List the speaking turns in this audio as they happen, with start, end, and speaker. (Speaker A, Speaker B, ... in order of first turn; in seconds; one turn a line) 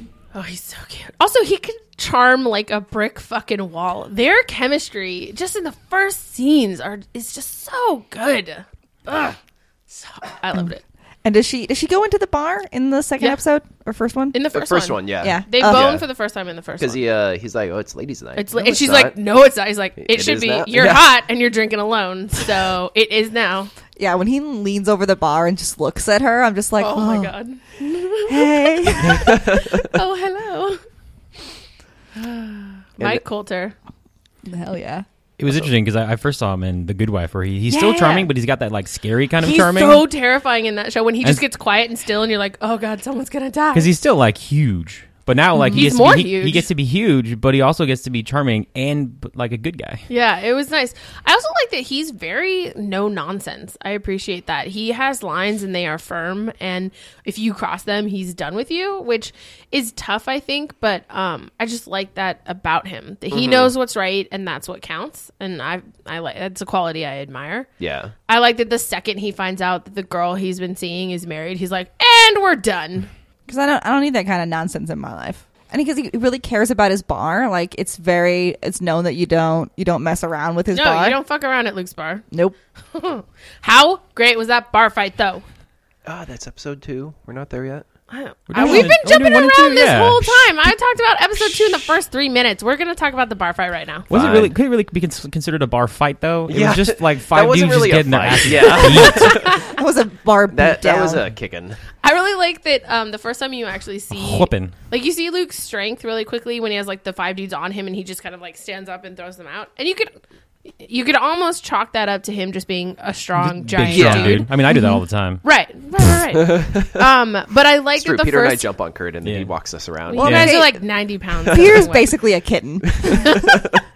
Speaker A: 0.3-9.4
Speaker A: 9.9-10.8
Speaker B: 11.2-14.4
Speaker A: 14.3-17.0
Speaker C: 14.5-16.1
Speaker B: 15.2-16.0
Speaker C: 16.8-19.1
Speaker A: 18.4-23.7
Speaker C: 20.0-21.1
Speaker B: 24.0-27.4
Speaker A: 26.8-30.8
Speaker B: 28.3-29.4
Speaker C: 29.1-29.9
Speaker A: 32.2-33.8
Speaker B: 34.5-35.0
Speaker D: 35.4-40.0
Speaker A: 37.7-38.3
Speaker A: 39.4-43.9
Speaker D: 43.7-50.0
Speaker B: 45.5-45.9
Speaker A: 45.7-46.7
Speaker A: 50.1-67.7
Speaker C: 63.3-63.7
Speaker C: 67.8-68.1
Speaker A: 68.3-73.1
Speaker B: 73.5-81.2
Speaker A: 80.7-82.2
Speaker B: 82.3-82.6
Speaker A: 82.9-85.4
Speaker C: 86.0-87.9
Speaker A: 88.1-94.1
Speaker D: 88.5-90.7
Speaker B: 88.6-88.9
Speaker D: 94.1-99.4
Speaker C: 94.1-94.5
Speaker C: 96.5-99.6
Speaker A: 98.7-99.7
Speaker B: 99.6-101.2
Speaker C: 100.5-101.8
Speaker A: 102.0-110.1
Speaker D: 104.1-104.7
Speaker A: 110.8-114.5
Speaker D: 113.4-115.4
Speaker C: 113.8-114.5
Speaker B: 114.7-115.0
Speaker A: 115.4-118.7
Speaker C: 116.3-117.1
Speaker C: 118.0-120.6
Speaker D: 119.2-119.5
Speaker A: 120.1-122.1
Speaker B: 120.2-120.8
Speaker D: 120.2-120.5
Speaker C: 121.5-121.9
Speaker B: 121.5-123.4
Speaker C: 122.9-123.8
Speaker A: 123.1-123.5